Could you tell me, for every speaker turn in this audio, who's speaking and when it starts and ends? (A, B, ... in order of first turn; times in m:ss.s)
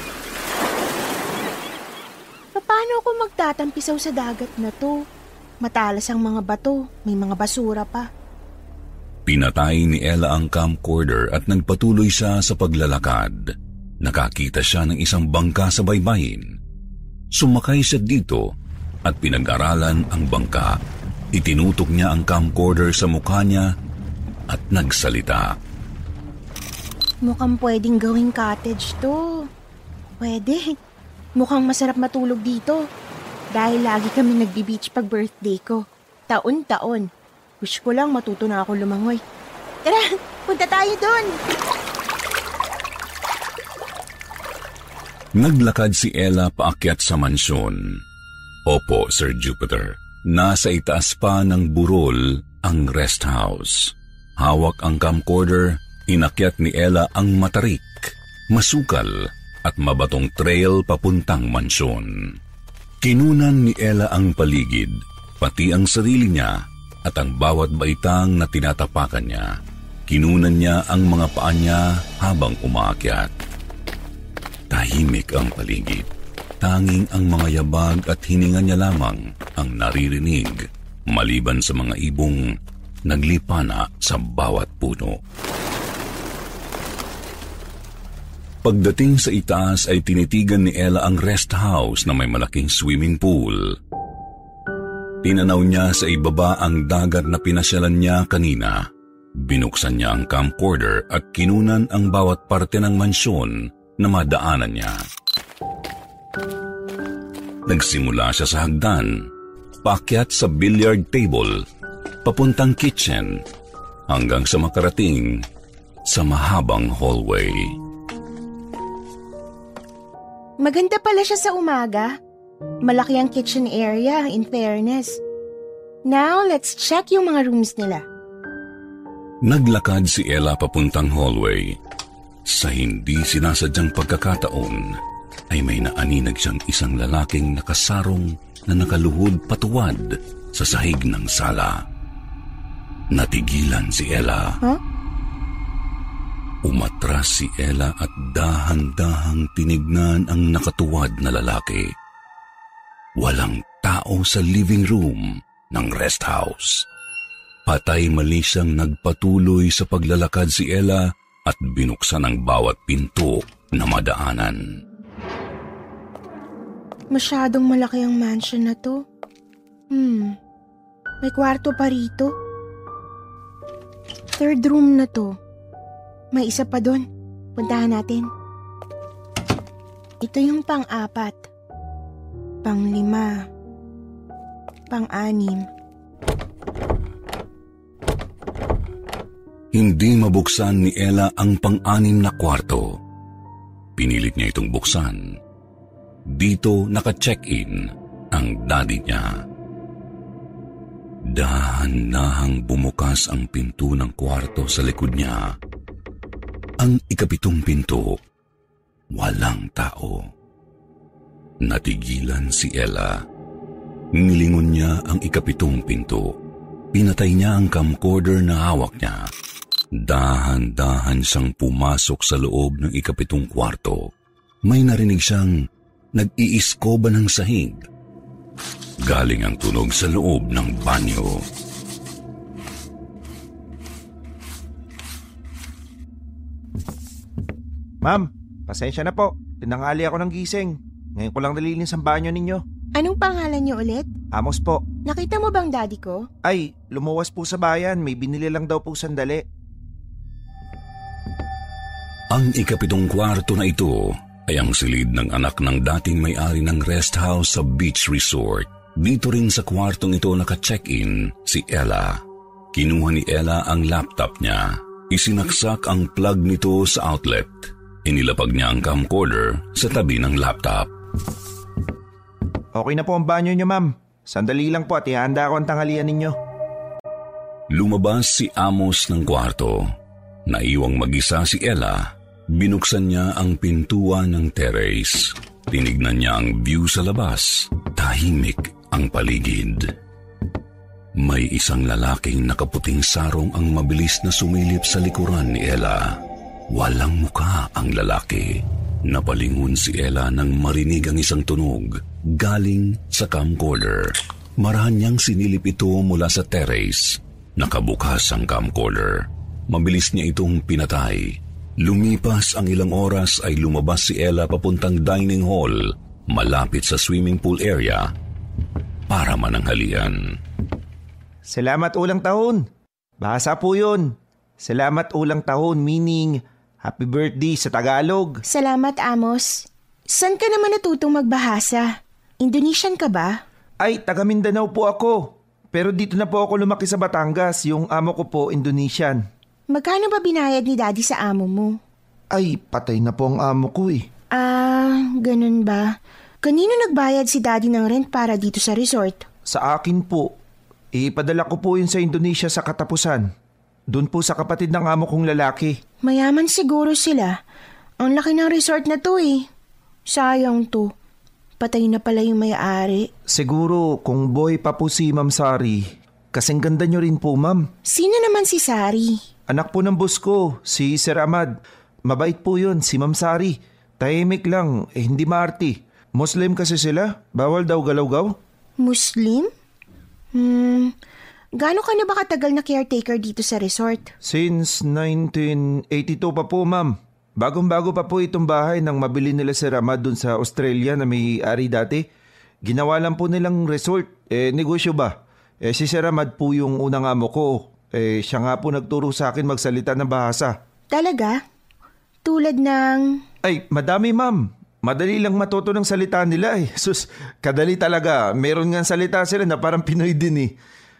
0:02.5-0:05.0 A
0:05.6-0:08.1 A
0:09.3-0:13.4 B
0:14.0-0:16.4 B
0:17.3-0:18.4 B
0:19.0-0:20.8 B
0:21.3-0:23.7 B
0:24.5-0:25.5 B
0:27.2-0:29.2 A
0:30.2-0:30.6 A
0:31.4-0:32.8 A
0:33.5-0:37.0 A
0:37.6-0:39.2 A
0:39.8-0:41.4 A
0:45.4-0:48.0 B
0:48.7-1:02.3 B
1:03.0-1:06.5 B
1:07.0-1:09.5 B
1:10.1-1:13.3 B
1:14.7-1:16.1 B
1:16.6-1:22.5 B
1:23.1-1:25.2 B
1:28.6-1:33.8 B
1:35.2-1:38.9 B
1:39.4-1:45.0 B
1:47.7-1:49.3 B
1:49.8-1:51.6 B
1:52.2-1:53.4 B
1:54.1-1:55.4 B
1:56.1-1:57.7 B
2:00.6-2:02.1 A
2:02.8-2:05.2 A
2:06.1-2:08.0 A
2:09.4-2:11.8 B
2:12.5-2:15.0 B
2:15.5-2:21.8 B
2:23.1-2:24.6 B
2:26.6-2:31.9 B
2:33.2-2:36.8 B
2:37.7-2:44.6 B
2:47.1-2:49.0 A
2:49.9-2:50.3 A
2:51.2-2:52.3 A
2:54.4-2:55.4 A
2:56.3-2:57.0 A
2:57.6-2:58.3 A
3:00.2-3:01.4 A
3:02.6-3:03.3 A
3:04.9-3:05.7 A
3:09.7-3:13.0 B
3:14.0-3:15.3 B
3:16.3-3:19.3 B
3:21.3-3:25.5 B
3:26.8-3:28.2 B
3:29.1-3:30.2 B
3:31.6-3:33.2 B
3:34.1-3:36.3 B
3:36.9-3:39.3 B
3:40.0-3:44.1 B
3:44.7-3:45.5 B
3:46.1-3:47.8 B
3:49.0-3:51.4 B
3:58.0-4:02.6 C
4:02.9-4:04.1 A
4:04.3-4:04.9 C
4:05.0-4:06.3 A
4:06.4-4:09.4 C
4:12.3-4:22.2 B
4:22.7-4:30.9 B
4:32.7-4:36.4 C
4:37.7-4:39.9 B
4:40.5-4:49.9 B
4:51.2-4:56.2 B
4:56.7-5:18.1 B
5:19.1-5:20.2 B
5:21.5-5:22.6 C
5:23.2-5:28.4 C
5:28.5-5:33.4 A
5:33.8-5:39.2 C
5:39.7-5:41.8 A
5:42.3-5:44.1 C
5:44.3-5:49.2 A
5:49.5-5:50.3 C
5:50.9-5:53.3 C
5:53.9-5:55.8 C
5:56.0-5:57.4 A
5:58.0-5:59.5 A
6:00.1-6:00.9 A
6:01.6-6:03.1 A
6:03.3-6:07.7 C
6:07.9-6:09.2 A
6:09.5-6:18.4 C
6:18.8-6:19.5 A
6:20.3-6:20.9 A
6:21.6-6:24.1 A
6:24.2-6:32.1 C
6:32.6-6:40.5 C
6:40.9-6:41.4 A
6:42.2-6:43.2 A
6:43.4-6:50.5 C